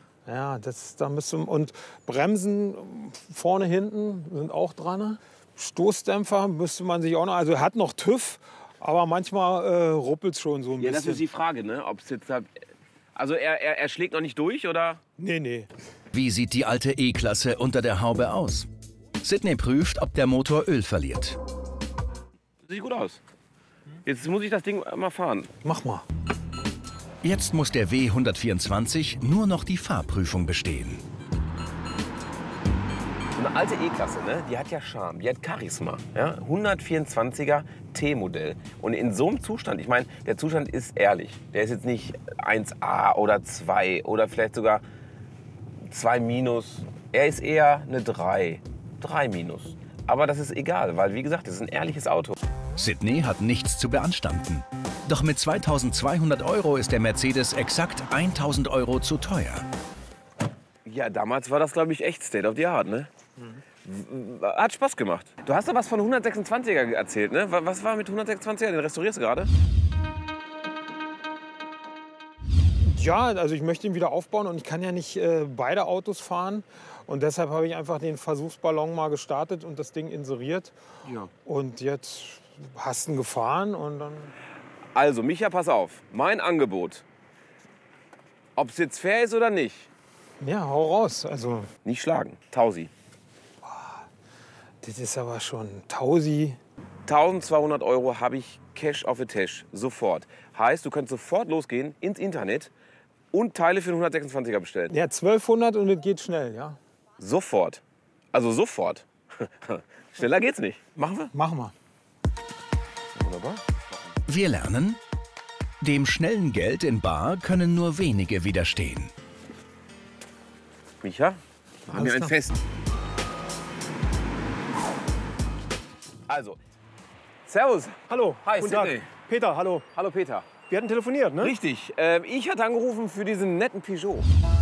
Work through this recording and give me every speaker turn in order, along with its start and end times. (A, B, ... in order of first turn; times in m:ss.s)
0:00.2-0:11.2 A
0:10.8-0:12.5 B
0:13.2-0:15.0 B
0:15.2-0:15.7 A
0:16.1-0:18.7 C
0:19.2-0:21.4 C
0:22.7-0:23.2 B
0:24.1-0:25.5 B
0:25.6-0:26.0 A
0:27.2-0:31.0 C
0:33.4-0:44.8 B
0:45.9-0:52.4 B
0:52.8-0:59.7 C
1:00.9-1:03.1 B
1:03.8-1:09.5 B
1:12.8-1:20.8 A
1:21.4-1:24.3 A
1:24.9-1:27.0 B
1:28.6-1:29.9 B
1:30.4-1:31.7 A
1:31.8-1:32.9 B
1:33.6-1:34.1 A
1:34.8-1:36.6 A
1:37.1-1:42.7 B
1:43.3-1:44.9 B
1:44.9-1:46.8 A
1:47.2-1:47.8 B
1:48.3-1:51.3 B
1:51.3-1:51.7 A
1:53.2-1:53.6 B
1:54.3-1:55.0 C
1:55.8-1:59.1 C
2:01.0-2:02.6 B
2:01.9-2:02.3 A
2:06.3-2:06.6 B
2:07.5-2:09.1 B
2:08.1-2:09.9 D
2:09.9-2:10.5 B
2:10.7-2:11.6 D
2:11.4-2:14.3 B